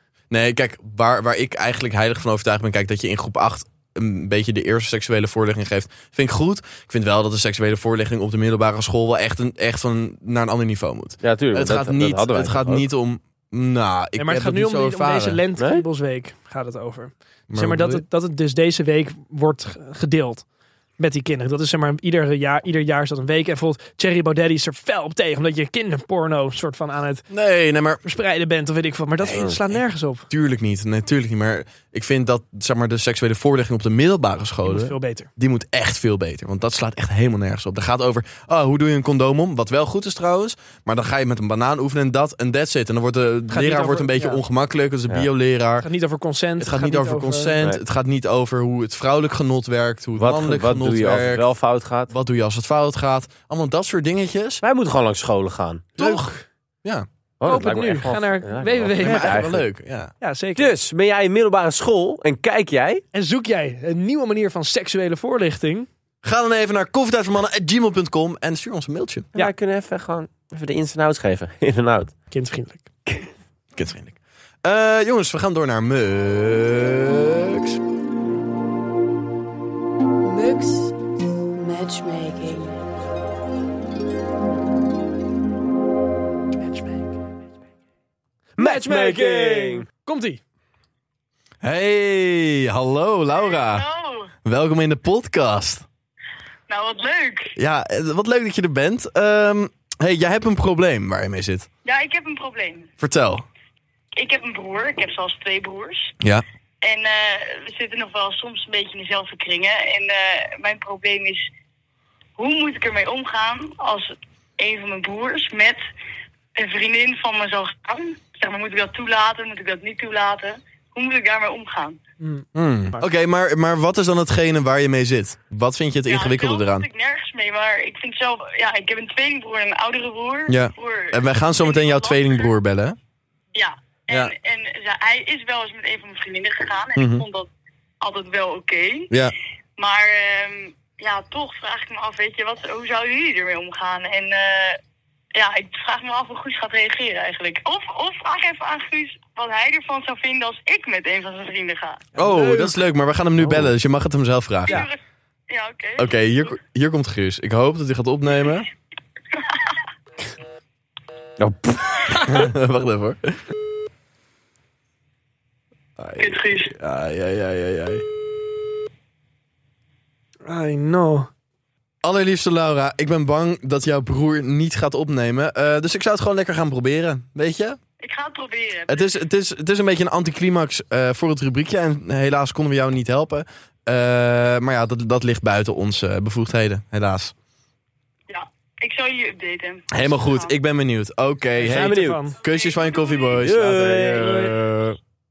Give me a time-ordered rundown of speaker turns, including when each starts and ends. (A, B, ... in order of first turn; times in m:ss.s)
0:00.3-0:15.4 A
0:11.2-0:12.9 B
0:14.2-0:20.4 C
0:15.6-0:15.8 B
0:17.5-0:18.0 A
0:21.0-0:27.3 C
0:27.3-0:28.0 A
0:28.0-0:30.3 C
0:29.2-0:29.8 A
0:30.3-0:45.9 A
0:34.6-0:35.3 C
0:43.5-0:44.4 C
0:45.8-0:47.6 C
0:46.6-0:51.5 A
0:50.2-0:52.1 B
0:52.1-0:54.6 A
0:54.6-0:55.9 B
0:56.0-0:56.4 C
0:56.0-0:57.0 A
0:57.4-0:59.6 B
0:57.4-0:59.5 C
0:59.0-1:00.1 A
1:00.2-1:00.7 C
1:00.6-1:03.0 B
1:03.1-1:05.9 C
1:06.2-1:09.3 A
1:09.3-1:12.1 B
1:12.3-1:12.9 C
1:13.7-1:17.8 A
1:20.2-1:21.0 D
1:21.5-1:22.8 D
1:26.6-1:27.1 C
1:28.6-1:29.9 B
1:28.6-1:30.4 C
1:31.6-1:33.8 A
1:33.4-1:34.3 E
1:34.4-1:35.8 A
1:36.7-1:37.5 E
1:37.6-1:41.7 A
1:41.8-1:42.9 E
1:43.0-1:43.4 A
1:44.2-1:46.1 E
1:46.8-1:51.4 E
1:52.4-1:55.8 E
1:56.6-2:02.0 E
2:02.2-2:03.0 C
2:02.5-2:06.8 A
2:06.1-2:12.5 E
2:10.5-2:13.0 A
2:13.5-2:17.5 E
2:17.0-2:17.2 A
2:18.0-2:19.1 E
2:19.8-2:24.8 E
2:25.3-2:32.0 E
2:32.2-2:32.8 C
2:32.2-2:34.8 A
2:33.4-2:33.7 B
2:34.7-2:35.0 E
2:35.5-2:36.2 E
2:36.0-2:38.7 A
2:39.4-2:39.7 E
2:41.4-2:42.4 B
2:42.2-2:43.4 A
2:46.0-2:48.0 A
2:46.2-2:46.7 E
2:50.4-2:51.3 C
2:52.0-2:57.8 A
2:58.0-2:59.1 E
2:58.9-3:07.3 A
3:08.3-3:10.6 E
3:09.9-3:15.0 A
3:11.6-3:12.4 C
3:11.6-3:12.2 B
3:12.4-3:13.4 E
3:13.4-3:14.5 B
3:14.0-3:14.5 C